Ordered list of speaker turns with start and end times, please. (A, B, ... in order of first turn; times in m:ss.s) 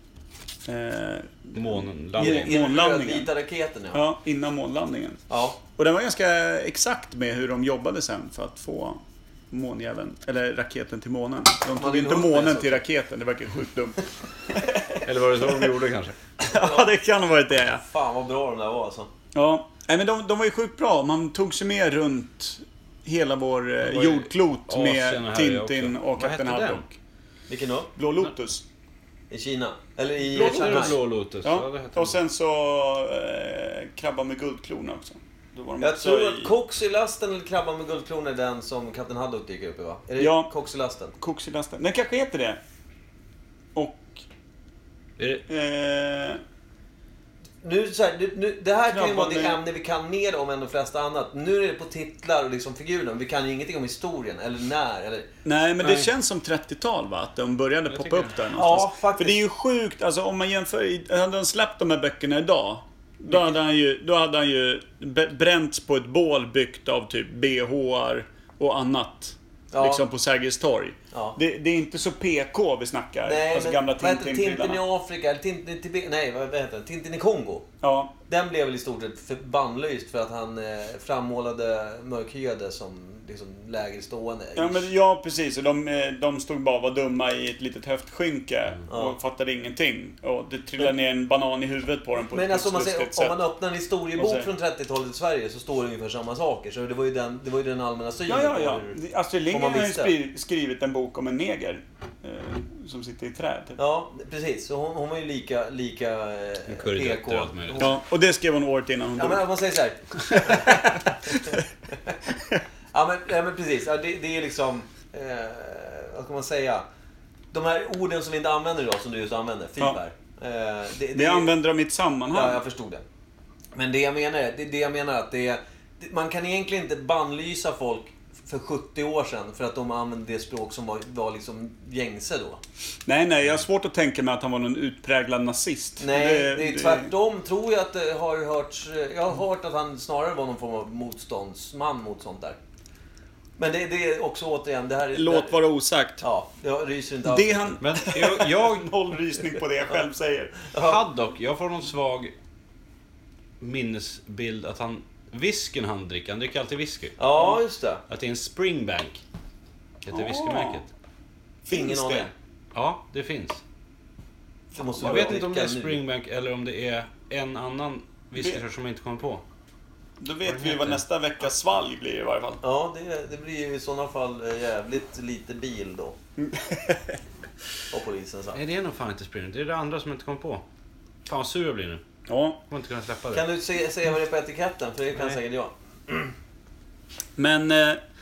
0:00.7-0:03.3 A
0:01.5-0:02.5 B
0:02.2-0:04.0 C
0:03.9-0:15.7 A
0:05.3-0:05.6 C
0:11.8-0:12.8 C
0:15.0-0:16.2 B
0:16.4-0:17.8 A
0:16.4-0:16.9 C
0:17.8-0:19.1 C
0:19.4-0:27.0 A
0:23.9-0:26.8 B
0:27.5-0:27.9 C
0:28.0-0:28.6 A
0:29.3-0:31.0 C
0:30.3-0:32.2 B
0:30.4-0:36.6 A
0:35.8-0:41.2 C
0:40.2-0:40.5 A
0:41.2-0:42.6 A
0:43.8-0:44.2 A
0:45.2-0:45.4 B
0:45.5-0:46.4 A
0:47.6-0:55.3 C
0:48.9-0:49.6 A
0:55.4-1:14.8 A
0:55.8-0:56.1 B
0:57.9-0:58.3 B
0:58.5-0:59.4 C
1:09.7-1:10.0 C
1:11.1-1:11.4 C
1:13.2-1:17.7 C
1:17.8-1:18.2 A
1:18.3-1:24.9 C
1:24.6-1:33.4 A
1:28.9-1:29.2 C
1:32.3-1:39.0 C
1:34.2-1:34.5 A
1:38.3-1:43.8 A
1:39.5-1:40.1 C
1:43.8-1:48.0 C
1:46.7-1:47.9 B
1:47.8-1:49.4 A
1:49.2-1:52.2 C
1:50.4-1:51.6 A
1:52.9-1:56.8 C
1:57.5-2:01.5 C
2:01.1-2:02.6 A
2:02.3-2:03.0 C
2:03.7-2:12.6 C
2:13.1-2:17.1 A
2:16.0-2:22.6 C
2:23.6-2:25.6 C
2:25.1-2:26.2 A
2:26.2-2:27.8 C
2:27.2-2:30.5 A
2:27.8-2:28.9 B
2:30.7-2:31.0 C
2:30.8-2:32.4 B
2:33.6-2:39.2 B
2:37.2-2:38.0 C
2:40.0-2:40.9 B
2:40.1-2:40.8 A
2:41.6-2:42.3 A
2:41.7-2:42.3 C
2:42.7-2:43.6 B
2:44.7-2:45.4 A
2:44.8-2:46.0 C
2:45.0-2:49.4 B
2:48.4-2:48.6 A
2:50.2-2:52.6 A
2:50.4-2:51.0 B
2:52.6-2:56.2 C
2:56.4-2:57.2 A
2:57.9-2:58.6 C
2:58.6-3:00.6 B
3:01.3-3:02.0 B
3:02.3-3:02.6 A
3:02.7-3:03.4 B
3:03.3-3:06.3 C
3:07.4-3:08.0 A